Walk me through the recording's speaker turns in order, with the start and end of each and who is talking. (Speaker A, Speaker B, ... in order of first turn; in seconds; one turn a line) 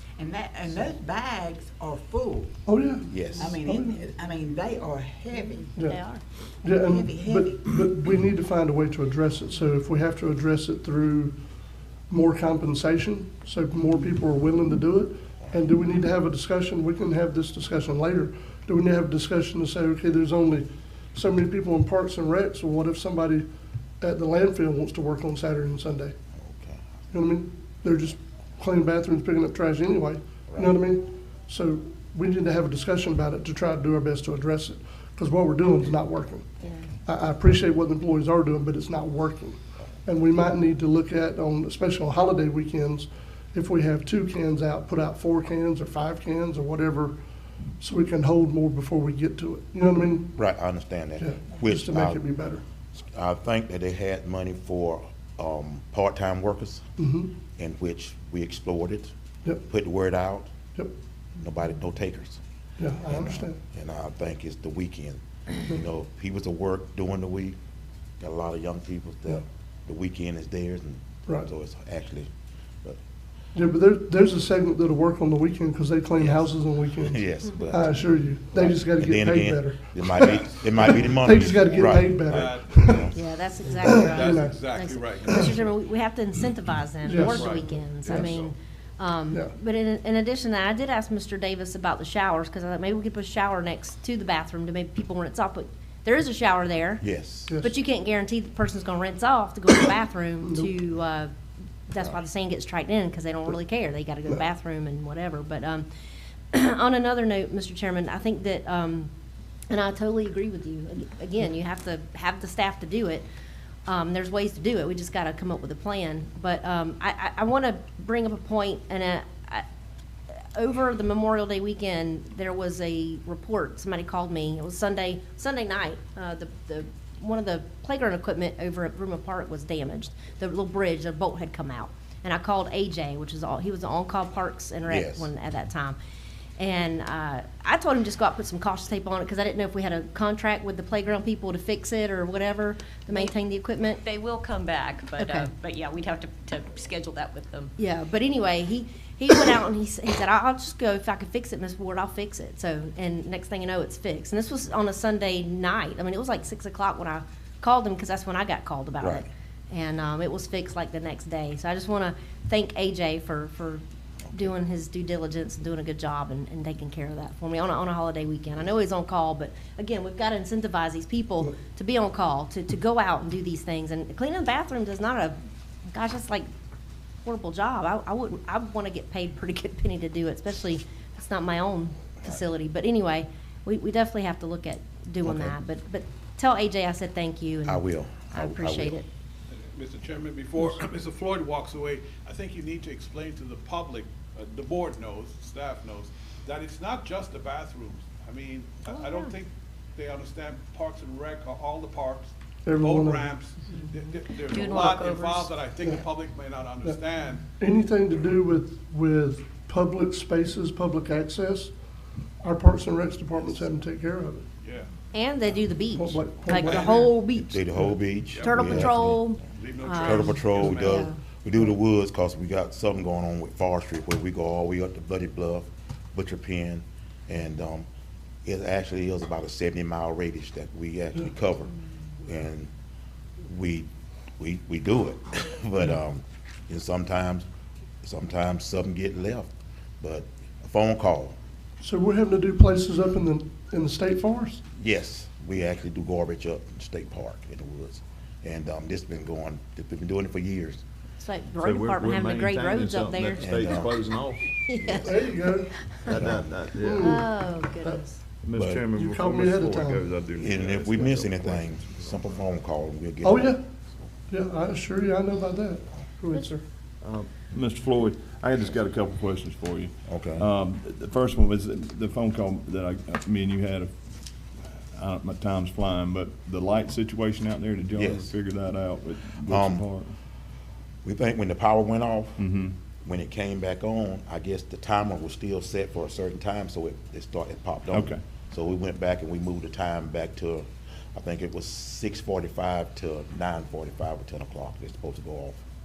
Speaker A: 0.2-2.5
Speaker B: 2.6-4.0
Speaker C: 3.1-3.6
Speaker A: 3.4-5.8
Speaker D: 5.8-6.2
Speaker B: 6.6-11.3
Speaker A: 6.8-7.9
Speaker B: 12.1-23.4
Speaker B: 24.0-26.1
Speaker C: 26.4-26.8
Speaker B: 27.1-47.1
Speaker C: 30.5-30.7
Speaker B: 47.8-50.3
Speaker C: 50.4-52.2
Speaker B: 51.2-52.6
Speaker C: 53.0-56.8
Speaker B: 57.0-57.3
Speaker C: 57.5-59.1
Speaker C: 59.6-60.5
Speaker C: 61.4-62.4
Speaker B: 62.8-63.6
Speaker C: 63.0-67.6
Speaker C: 68.2-72.3
Speaker B: 73.5-83.1
Speaker C: 77.0-78.0
Speaker C: 78.5-83.2
Speaker E: 81.5-81.9
Speaker F: 82.3-83.0
Speaker E: 83.1-101.3
Speaker B: 83.8-84.6
Speaker F: 84.0-85.8
Speaker B: 87.0-88.4
Speaker C: 97.0-97.5
Speaker E: 101.9-105.8
Speaker E: 106.5-109.1
Speaker E: 109.7-113.2
Speaker E: 113.9-119.6
Speaker E: 120.5-136.0
Speaker C: 134.9-135.3
Speaker E: 136.6-144.0
Speaker D: 143.8-147.7
Speaker E: 145.2-145.5
Speaker E: 147.8-175.4
Speaker C: 159.0-159.3
Speaker E: 175.9-176.5
Speaker E: 177.2-189.1
Speaker C: 185.2-185.5
Speaker C: 187.7-189.0
Speaker F: 189.5-207.4
Speaker D: 198.9-199.3
Speaker B: 202.6-203.3
Speaker D: 203.7-206.0
Speaker B: 207.6-211.7
Speaker B: 212.4-214.4
Speaker F: 214.6-214.9
Speaker E: 215.1-217.6
Speaker B: 215.9-217.1
Speaker F: 216.6-217.1
Speaker C: 217.3-219.2
Speaker F: 218.3-218.7
Speaker E: 218.4-221.2
Speaker F: 219.5-221.1
Speaker C: 220.0-227.9
Speaker C: 228.4-232.7
Speaker C: 233.4-233.9
Speaker C: 234.4-237.4
Speaker C: 238.0-241.3
Speaker B: 241.8-244.6
Speaker C: 244.8-250.8
Speaker E: 251.2-253.8
Speaker G: 251.6-255.1
Speaker C: 253.4-253.9
Speaker E: 254.6-255.9
Speaker B: 255.0-255.8
Speaker G: 256.0-257.3
Speaker C: 256.1-256.4
Speaker B: 256.8-257.3
Speaker E: 257.0-258.2
Speaker G: 258.4-262.1
Speaker C: 258.5-258.8
Speaker B: 258.9-260.1
Speaker C: 260.4-263.6
Speaker B: 263.2-263.6
Speaker B: 264.3-266.6
Speaker G: 267.0-273.9
Speaker C: 270.0-270.5
Speaker G: 274.9-280.1
Speaker C: 277.9-278.3
Speaker C: 279.4-279.9
Speaker C: 281.0-282.4
Speaker G: 282.4-282.7
Speaker C: 283.0-295.6
Speaker G: 287.9-288.2